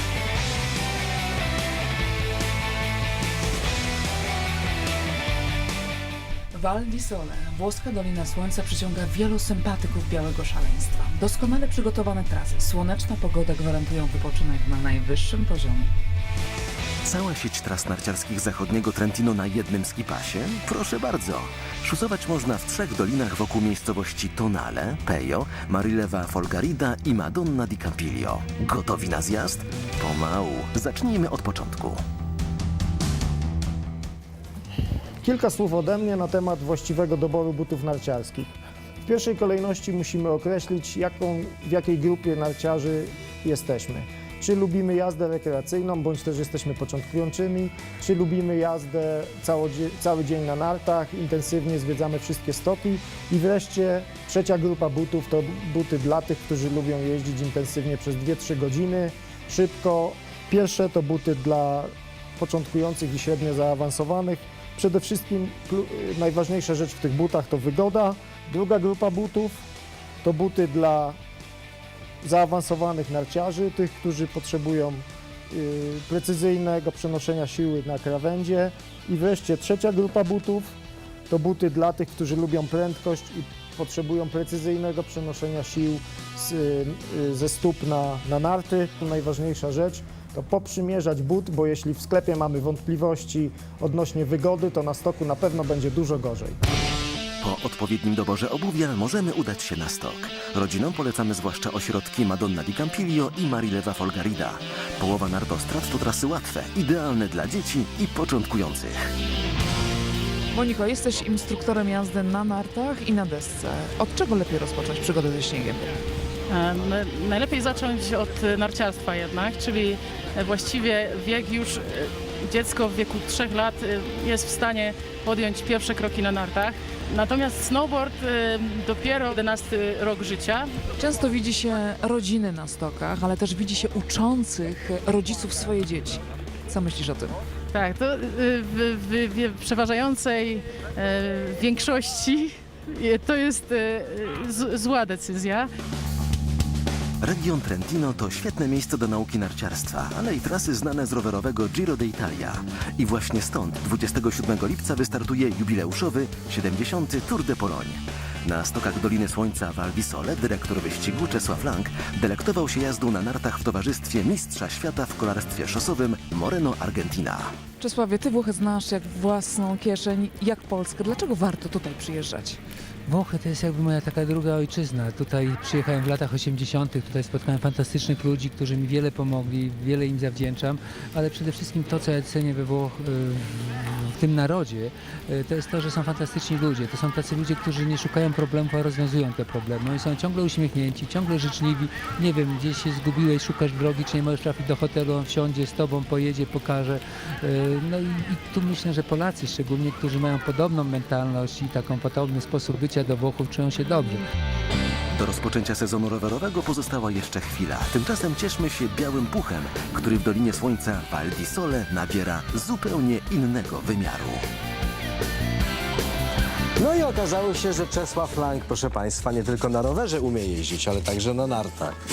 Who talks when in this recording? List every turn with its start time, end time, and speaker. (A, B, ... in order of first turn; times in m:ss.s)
0:06.5-0:15.9 A
0:17.0-0:32.0 B
0:35.2-0:38.5 C
0:39.0-1:09.6 C
1:10.2-1:11.2 C
1:12.2-1:20.8 C
1:21.3-1:36.6 C
1:37.4-1:49.0 B
1:50.5-1:56.0 A
1:56.5-2:10.7 D
2:11.0-2:17.4 A
2:17.7-2:25.7 D
2:27.2-2:47.5 B
2:47.8-2:52.6 A
2:53.1-3:24.2 E
3:25.1-3:34.4 B
3:36.8-3:41.9 F